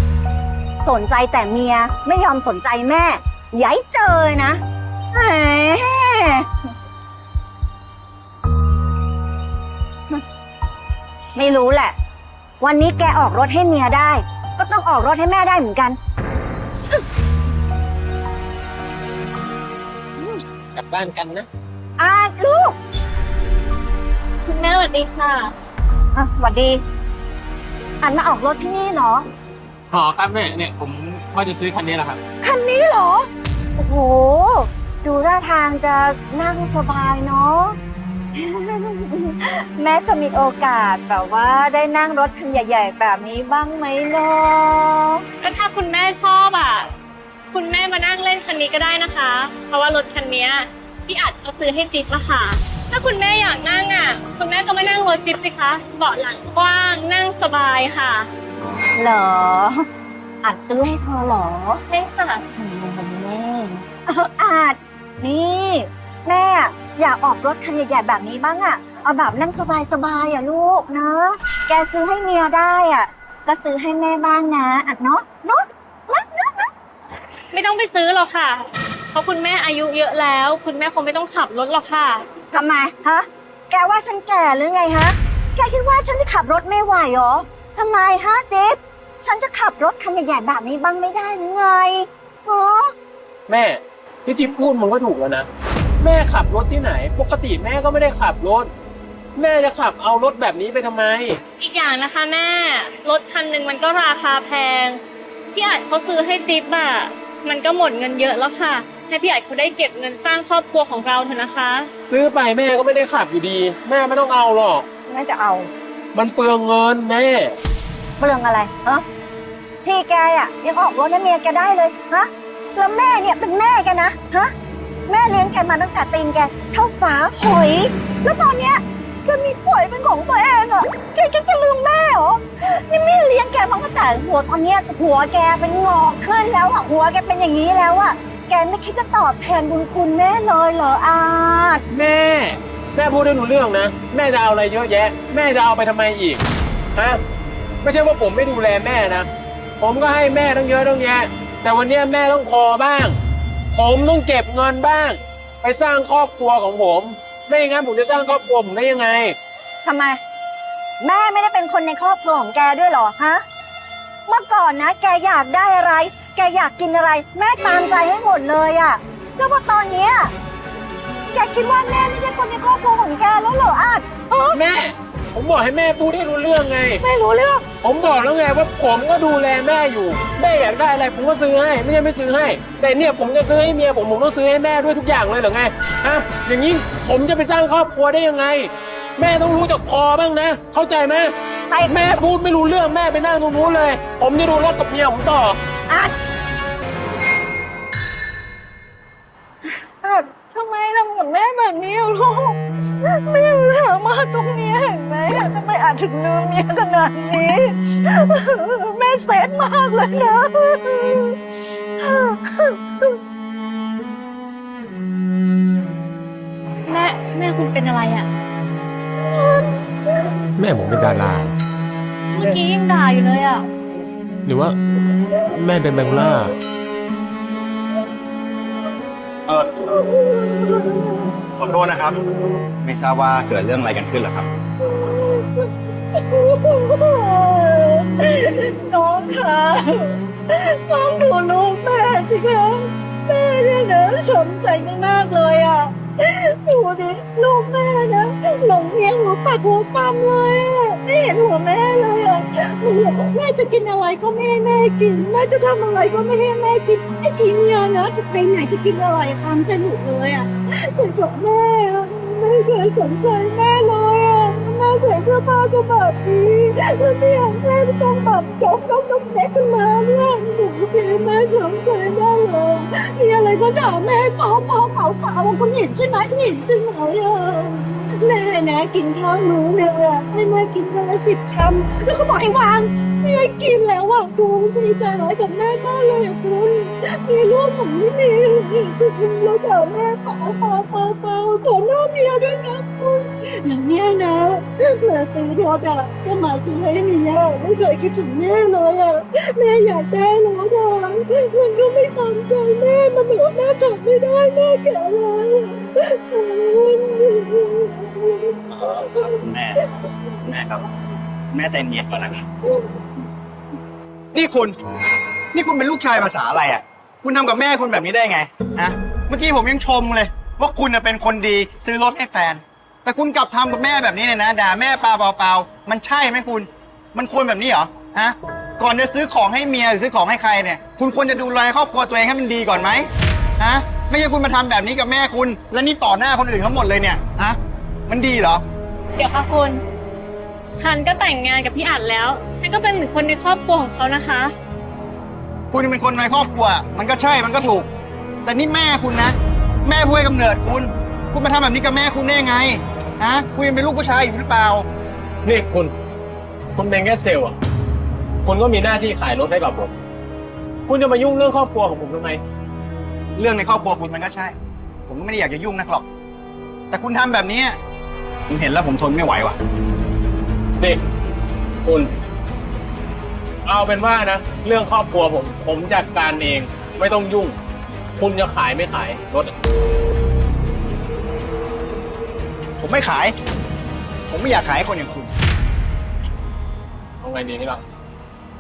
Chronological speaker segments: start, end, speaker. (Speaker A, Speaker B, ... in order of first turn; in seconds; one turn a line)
Speaker A: 0.8-4.6
Speaker A: 5.1-6.7
Speaker A: 11.3-12.0
Speaker A: 12.6-16.0
Speaker B: 20.7-21.5
Speaker A: 22.0-22.8
Speaker C: 24.5-25.5
Speaker A: 26.1-26.8
Speaker A: 28.0-29.3
Speaker B: 29.9-32.2
Speaker A: 32.4-37.8
Speaker A: 38.3-45.2
Speaker C: 45.4-46.9
Speaker C: 47.5-58.3
Speaker A: 59.0-59.9
Speaker A: 60.4-61.8
Speaker C: 61.8-62.5
Speaker A: 62.5-76.7
Speaker C: 77.5-82.3
Speaker A: 82.5-93.0
Speaker B: 93.5-95.5
Speaker B: 96.0-98.7
Speaker B: 99.3-101.4
Speaker C: 101.6-105.0
Speaker C: 105.5-111.9
Speaker B: 112.1-114.8
Speaker A: 115.1-115.7
Speaker B: 116.1-117.5
Speaker A: 118.2-119.1
Speaker A: 119.8-124.5
Speaker A: 125.1-141.8
Speaker B: 141.9-147.2
Speaker B: 147.8-149.3
Speaker B: 149.8-153.2
Speaker B: 153.7-159.4
Speaker A: 159.8-160.2
Speaker A: 161.0-163.5
Speaker A: 164.3-170.3
Speaker A: 171.3-174.6
Speaker B: 174.5-177.0
Speaker A: 177.0-177.7
Speaker B: 177.8-191.3
Speaker A: 191.7-192.2
Speaker B: 191.9-195.6
Speaker A: 195.9-196.2
Speaker A: 199.8-211.3
Speaker A: 212.0-212.8
Speaker C: 216.8-218.3
Speaker B: 220.6-221.5
Speaker C: 222.3-223.7
Speaker B: 224.5-226.5
Speaker D: 229.5-229.9
Speaker A: 230.3-231.1
Speaker D: 231.6-232.2
Speaker D: 232.8-234.5
Speaker A: 235.0-235.5
Speaker A: 236.3-309.0
Speaker D: 309.4-309.9
Speaker D: 310.4-310.9
Speaker D: 311.5-312.5
Speaker D: 314.3-314.8
Speaker D: 315.5-338.6
Speaker C: 339.2-339.8
Speaker C: 340.7-344.6
Speaker D: 345.7-347.9
Speaker D: 348.4-354.9
Speaker B: 355.4-355.9
Speaker B: 356.8-357.6
Speaker B: 358.4-359.9
Speaker B: 360.9-362.4
Speaker D: 363.4-364.6
Speaker D: 365.1-366.1
Speaker D: 366.9-367.8
Speaker D: 368.5-369.6
Speaker B: 371.8-372.1
Speaker B: 373.6-377.6
Speaker B: 378.2-379.6
Speaker D: 382.8-383.4
Speaker D: 384.3-385.3
Speaker B: 387.2-387.8